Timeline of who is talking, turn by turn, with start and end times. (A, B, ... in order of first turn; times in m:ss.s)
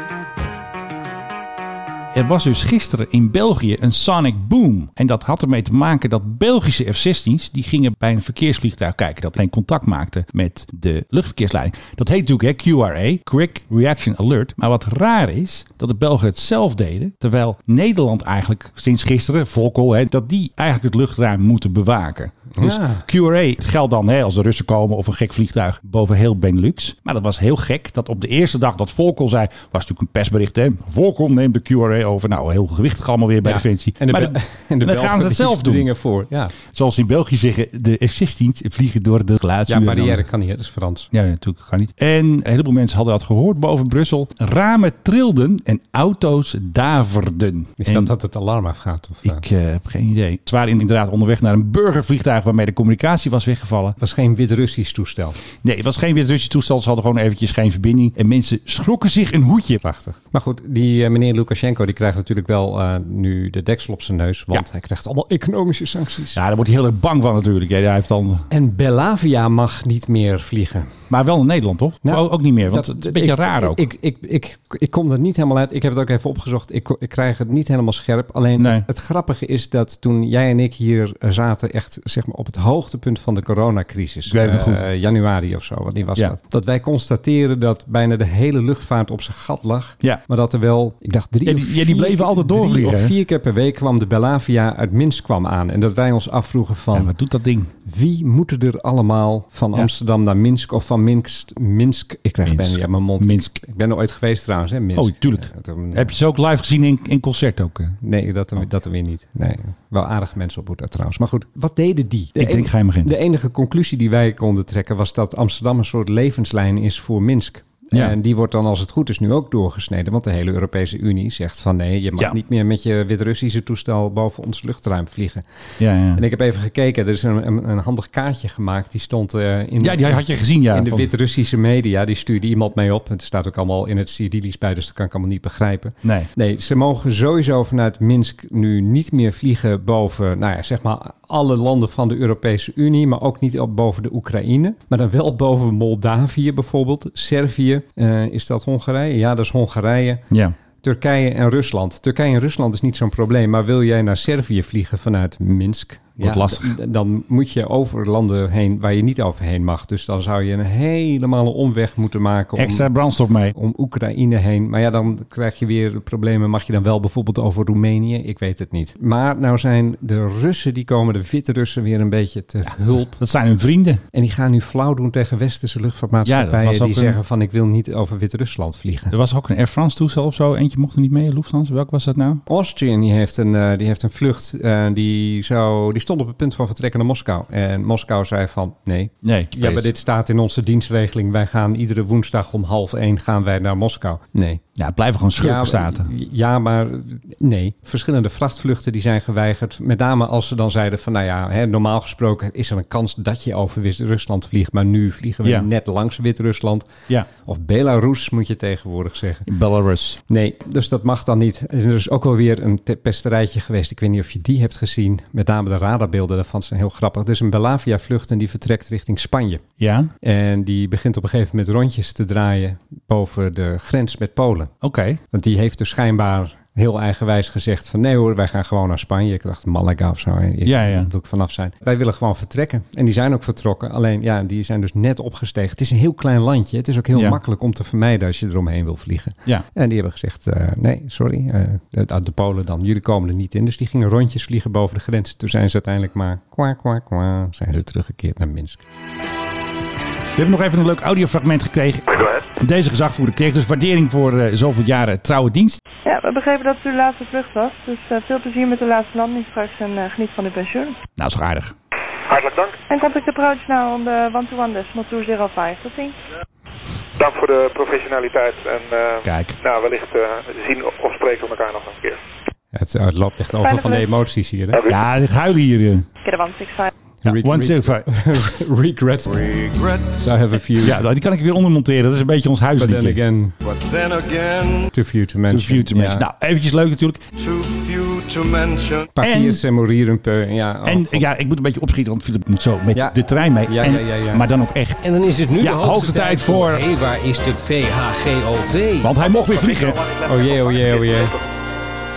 0:02.1-0:35.9 A
0:22.5-0:23.0 B
0:33.4-0:36.5 B
0:36.7-0:40.2 A
0:39.7-0:41.1 B
0:41.1-0:48.1 A
0:47.8-0:49.4 B
0:49.2-0:54.0 A
0:54.0-0:55.4 B
0:55.6-0:59.8 A
0:59.8-1:06.4 B
1:06.3-1:08.4 A
1:08.5-1:10.9 B
1:11.1-1:13.9 A
1:12.0-1:37.1 B
1:18.6-1:18.9 A
1:24.3-1:24.9 A
1:31.4-1:33.1 A
1:36.9-1:37.7 A
1:37.8-1:46.1 B
1:42.4-1:43.6 A
1:44.9-1:48.0 A
1:48.0-2:05.4 B
1:52.4-1:53.1 A
2:05.8-2:06.2 A
2:06.1-2:30.2 B
2:09.8-2:11.1 A
2:16.0-2:16.3 A
2:30.8-2:42.9 B
2:36.2-2:36.8 A
2:42.6-2:43.5 A
2:43.5-2:53.2 B
2:52.9-2:54.0 A
2:54.1-2:59.1 B
2:56.2-2:57.2 A
2:59.1-3:02.4 A
3:02.5-3:14.6 B
3:09.2-3:09.9 A
3:14.8-3:16.1 A
3:15.4-3:29.5 B
3:29.5-3:30.2 A
3:30.3-3:39.6 B
3:39.8-3:40.1 A
3:40.2-3:44.7 B
3:44.8-3:45.2 A
3:45.3-4:08.8 B
3:50.6-3:51.1 A
3:57.1-3:57.4 A
4:10.4-4:15.8 A
4:16.0-4:21.0 C
4:21.2-4:21.7 A
4:22.3-4:22.8 D
4:22.9-4:26.2 C
4:27.2-4:32.2 D
4:29.2-4:29.6 A
4:32.7-4:34.8 B
4:33.6-4:34.1 C
4:34.7-4:35.0 D
4:34.9-4:36.1 A
4:36.2-4:36.9 C
4:37.2-4:39.5 B
4:37.2-4:38.4 A
4:39.3-4:40.4 E
4:40.2-4:41.0 B
4:40.8-4:43.2 A
4:42.8-4:43.6 B
4:43.6-4:44.9 E
4:44.9-4:46.2 B
4:45.5-4:47.2 A
4:47.4-4:49.1 E
4:49.1-4:51.3 B
4:49.2-4:49.6 A
4:50.8-4:55.0 A
4:52.9-4:54.4 B
4:55.0-4:59.2 F
4:55.6-4:56.8 A
4:59.0-5:00.0 A
4:59.4-5:01.4 D
5:00.2-5:01.3 B